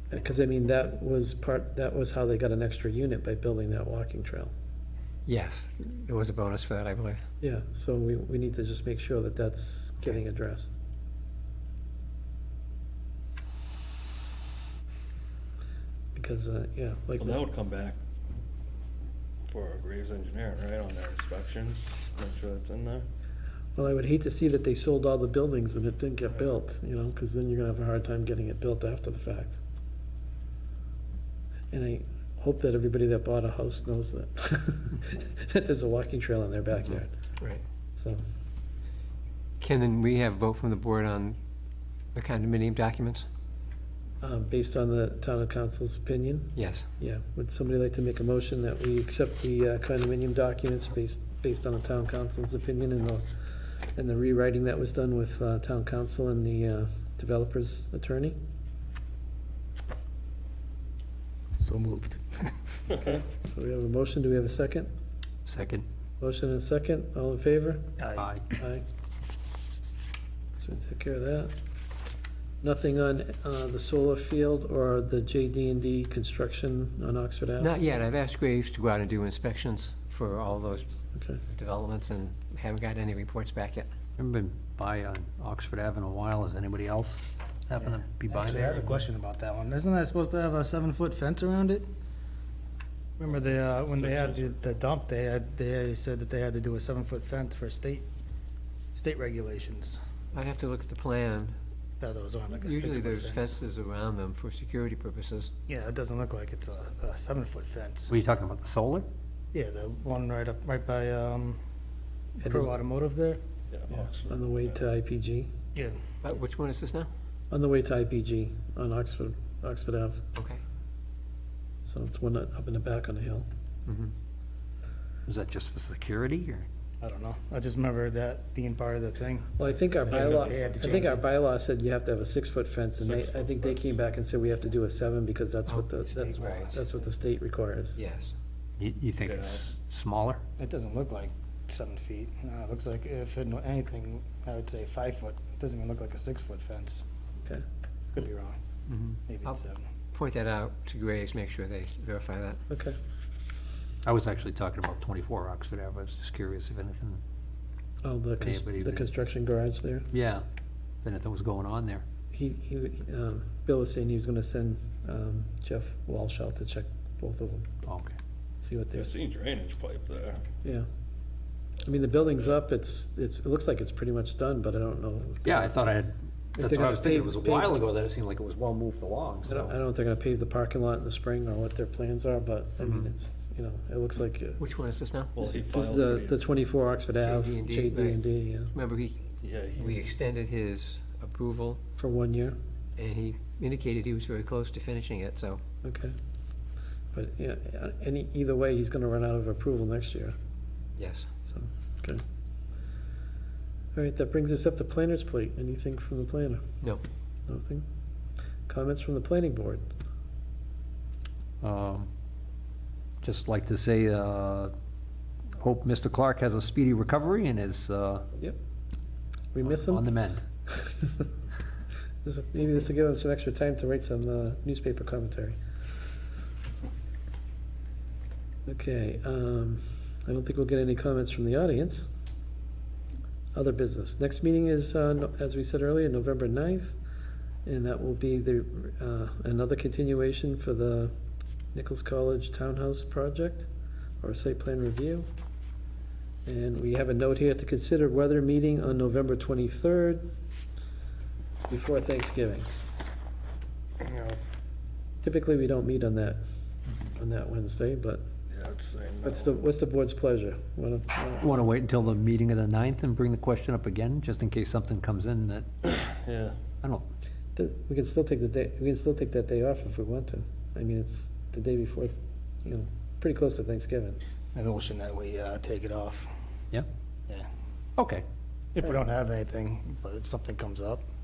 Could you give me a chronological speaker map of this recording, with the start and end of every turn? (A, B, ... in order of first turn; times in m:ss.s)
0:00.1-0:04.5 A
0:05.2-0:07.2 B
0:07.4-0:10.7 A
0:16.2-0:17.5 A
0:17.2-0:18.0 C
0:19.5-0:23.1 C
0:23.8-0:29.6 A
0:31.7-0:37.1 A
0:38.0-0:38.2 A
0:39.6-0:41.4 B
0:42.1-0:43.3 B
0:44.2-0:53.3 A
0:46.6-0:46.9 B
0:54.0-0:58.4 A
1:01.6-1:02.8 D
1:02.9-1:04.9 A
1:05.4-1:05.8 E
1:06.2-1:08.0 A
1:08.0-1:08.3 D
1:08.1-1:08.5 E
1:08.6-1:08.8 A
1:10.6-1:11.5 A
1:12.6-1:17.8 A
1:17.6-1:23.9 B
1:21.1-1:21.4 A
1:24.2-1:29.0 E
1:27.8-1:31.9 D
1:33.2-1:38.1 D
1:33.2-1:34.5 C
1:38.9-1:40.0 D
1:40.3-1:41.6 B
1:42.0-1:43.6 D
1:42.5-1:45.5 B
1:45.7-1:48.1 D
1:48.1-1:49.1 E
1:49.5-1:51.6 D
1:52.4-1:52.7 A
1:52.4-1:53.4 D
1:53.7-1:54.9 C
1:53.9-1:55.5 A
1:55.7-1:56.0 D
1:56.2-1:57.1 B
1:57.5-2:00.2 A
2:00.3-2:00.6 B
2:01.8-2:03.4 A
2:03.8-2:04.1 B
2:05.2-2:06.7 E
2:07.0-2:09.5 D
2:09.6-2:18.0 A
2:10.0-2:11.2 D
2:10.1-2:10.8 C
2:13.0-2:14.0 C
2:15.7-2:16.7 B
2:16.0-2:16.8 D
2:18.0-2:18.3 B
2:18.8-2:20.4 E
2:19.2-2:19.6 C
2:20.6-2:27.0 D
2:28.1-2:28.6 D
2:28.9-2:29.6 B
2:29.3-2:29.8 D
2:30.1-2:32.6 B
2:32.7-2:33.0 A
2:34.0-2:37.2 E
2:38.0-2:40.1 A
2:38.4-2:39.1 E
2:40.1-2:40.4 E
2:41.0-2:42.0 E
2:42.3-2:47.7 A
2:47.8-2:48.1 E
2:48.6-2:49.2 A
2:48.9-2:50.4 C
2:51.8-2:55.9 A
2:55.4-2:59.7 E
2:56.6-2:57.8 A
2:59.5-3:04.6 A
3:04.6-3:05.3 B
3:05.3-3:06.4 C
3:05.4-3:08.7 A
3:07.2-3:08.2 B
3:08.7-3:09.2 B
3:09.4-3:10.1 C
3:09.8-3:11.8 B
3:12.0-3:12.6 A
3:13.0-3:15.6 B
3:15.8-3:16.1 A
3:17.1-3:20.3 A
3:21.0-3:21.3 B
3:21.4-3:22.2 A
3:23.9-3:26.6 A
3:27.5-3:27.8 A
3:28.7-3:29.9 A
3:31.6-3:32.1 E
3:33.2-3:34.7 E
3:35.6-3:38.2 E
3:39.5-3:40.0 A
3:39.6-3:40.4 E
3:40.8-3:41.2 A
3:42.2-3:45.6 A
3:48.7-3:52.1 A
3:53.5-3:56.9 A
3:57.7-4:01.1 A
4:01.7-4:03.7 A
4:04.2-4:05.3 A
4:06.4-4:10.2 A
4:11.7-4:12.7 A
4:14.0-4:14.4 C
4:15.2-4:16.4 A
4:17.2-4:18.2 A
4:18.5-4:19.6 C
4:19.2-4:21.6 A
4:21.4-4:25.7 E
4:26.0-4:26.6 C
4:27.6-4:32.1 A
4:32.6-4:34.2 A
4:34.5-4:36.3 D
4:38.0-4:38.2 E
4:38.7-4:41.0 D